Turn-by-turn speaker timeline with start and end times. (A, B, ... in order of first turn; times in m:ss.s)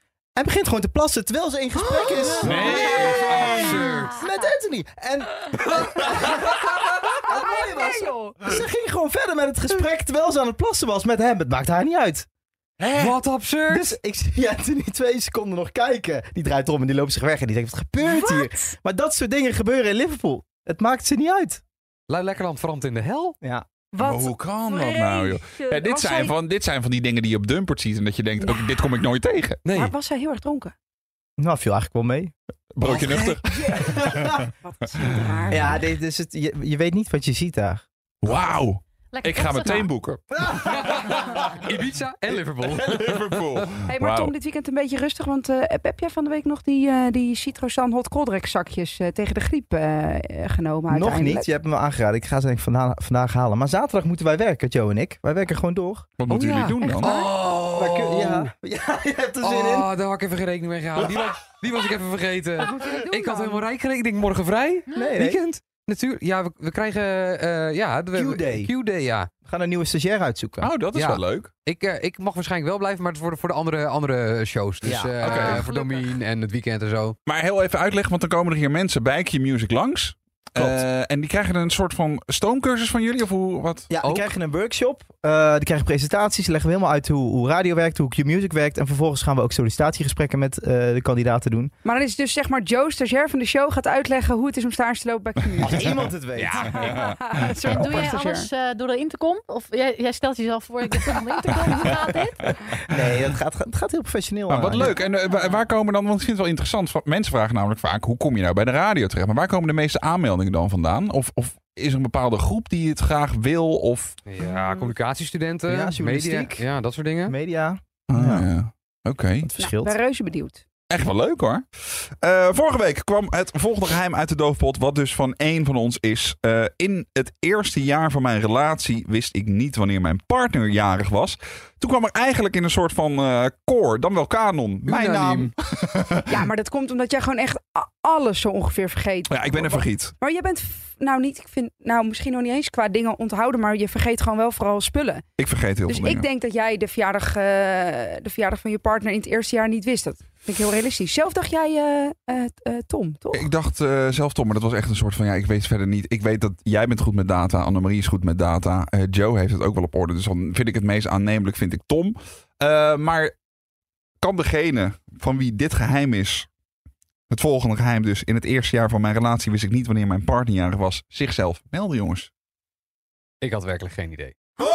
0:00.4-0:12.2 A
0:02.4-0:04.2 B
0:02.4-0:03.6 C
0:07.2-0:08.5 D
0:12.8-0:13.9 B
0:13.7-0:21.6 A
0:18.0-0:18.7 D
0:22.1-0:23.4 B
0:23.9-0:26.3 D
0:24.0-0:29.6 C
0:28.4-0:29.0 D
0:29.6-0:29.9 B
0:29.7-0:30.7 D
0:31.4-0:32.3 A
0:32.7-0:34.4 C
0:32.8-0:33.4 B
0:33.5-0:35.9 D
0:33.8-0:34.4 A
0:35.5-0:37.8 A
0:38.2-0:40.2 C
0:39.1-0:39.9 E
0:40.4-0:41.4 A
0:40.5-0:43.6 B
0:42.3-0:42.7 A
0:42.9-0:44.3 C
0:43.9-0:51.5 D
0:50.9-0:56.1 A
0:56.2-0:57.2 C
0:56.3-0:58.5 B
0:56.8-0:57.3 D
0:57.7-0:59.9 A
0:59.4-1:09.3 B
1:02.6-1:03.7 D
1:04.9-1:05.4 A
1:08.1-1:08.7 A
1:09.4-1:10.7 A
1:10.6-1:11.5 C
1:10.9-1:17.2 B
1:14.8-1:15.2 A
1:15.2-1:15.7 C
1:15.6-1:16.1 E
1:17.2-1:23.9 C
1:20.6-1:20.8 A
1:23.9-1:31.7 A
1:24.0-1:24.3 B
1:31.8-1:38.5 D
1:35.6-1:36.7 A
1:36.4-1:36.9 B
1:36.8-1:37.9 C
1:37.6-1:42.5 E
1:41.4-1:42.0 D
1:42.8-1:45.0 A
1:44.5-1:54.2 C
1:44.9-1:45.6 E
1:54.3-1:57.3 B
1:55.7-1:56.7 A
1:57.2-1:58.5 A
1:58.1-1:59.5 C
1:59.4-2:00.0 A
1:59.6-2:00.6 D
2:00.9-2:01.6 C
2:02.2-2:16.4 C
2:14.8-2:15.5 B
2:16.3-2:25.2 D
2:19.3-2:20.1 C
2:25.4-2:26.3 C
2:25.9-2:33.5 D
2:33.3-2:43.3 C
2:44.2-2:46.5 C
2:47.3-2:52.3 C
2:53.4-2:54.4 B